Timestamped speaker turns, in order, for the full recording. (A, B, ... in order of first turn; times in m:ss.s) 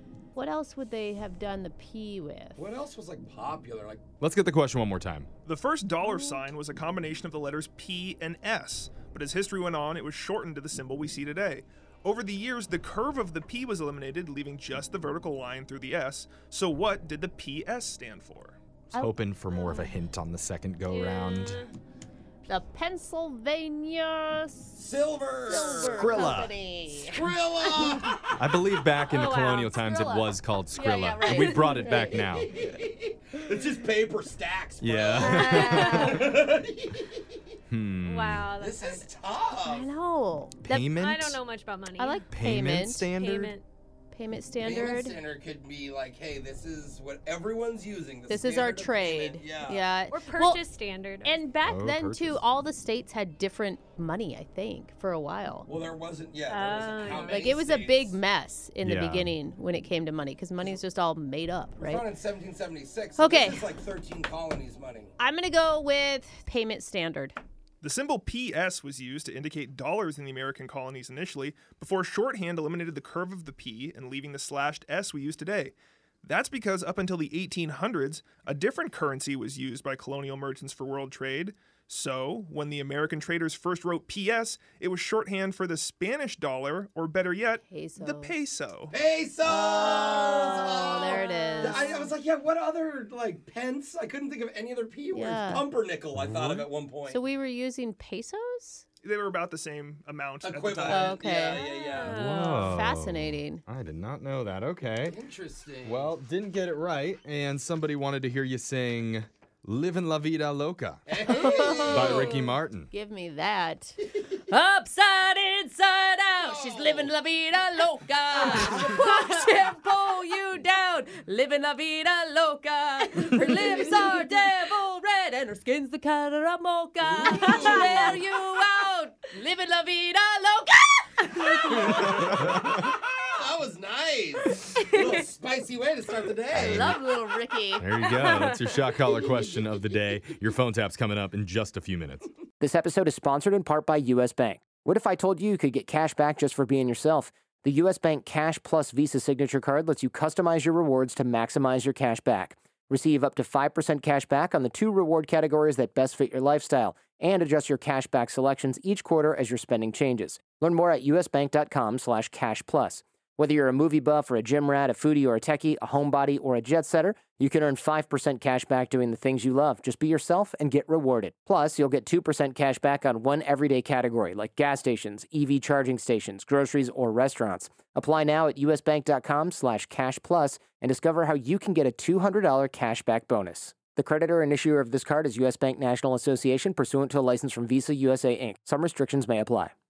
0:00.3-0:02.6 A
0:02.6-0:04.0 B
0:04.2-0:05.3 C
0:05.4-0:18.5 D
0:06.0-0:06.4 A
0:18.9-0:20.0 A
0:18.9-0:21.6 C
0:20.9-0:21.7 E
0:22.5-0:27.8 A
0:24.7-0:26.3 B
0:25.7-0:26.5 C
0:26.9-0:28.2 B
0:28.3-0:32.5 C
0:29.1-0:30.3 E
0:30.8-0:32.2 A
0:32.6-0:37.2 B
0:34.8-0:36.2 C
0:35.2-0:36.2 A
0:37.7-0:38.5 C
0:38.0-0:39.1 E
0:38.6-0:39.9 B
0:39.6-0:41.0 A
0:40.6-0:41.4 C
0:41.0-0:42.2 E
0:42.0-0:43.1 A
0:42.3-0:43.5 C
0:43.2-0:43.6 E
0:44.1-0:45.2 A
0:44.6-0:49.9 B
0:48.3-0:50.6 A
0:50.1-0:51.4 E
0:51.2-0:55.7 A
0:51.6-0:52.4 C
0:55.7-0:58.2 B
0:56.5-0:57.4 E
0:57.1-1:02.1 A
0:58.8-0:59.3 C
1:01.8-1:05.1 B
1:03.2-1:03.7 A
1:05.2-1:07.4 A
1:07.8-1:28.9 D
1:27.6-1:28.3 A
1:28.9-1:37.2 B
1:29.4-1:32.1 A
1:31.1-1:31.8 E
1:35.1-1:35.7 A
1:36.1-1:36.7 C
1:37.0-1:38.8 A
1:39.0-1:41.1 D
1:40.4-1:42.5 B
1:40.8-1:41.6 A
1:41.5-1:42.7 E
1:42.0-1:45.2 C
1:42.4-1:43.6 A
1:45.0-1:46.1 B
1:45.8-1:51.0 C
1:51.1-1:52.3 B
1:51.2-2:12.8 A
1:51.9-1:52.9 C
1:52.0-1:52.6 E
1:56.4-1:57.1 B
2:07.0-2:08.2 B
2:11.7-2:16.9 B
2:12.1-2:12.7 C
2:14.7-2:15.0 A
2:16.5-2:17.9 A
2:16.5-2:17.0 C
2:17.8-2:22.3 C
2:18.1-2:18.6 E
2:22.6-3:09.7 F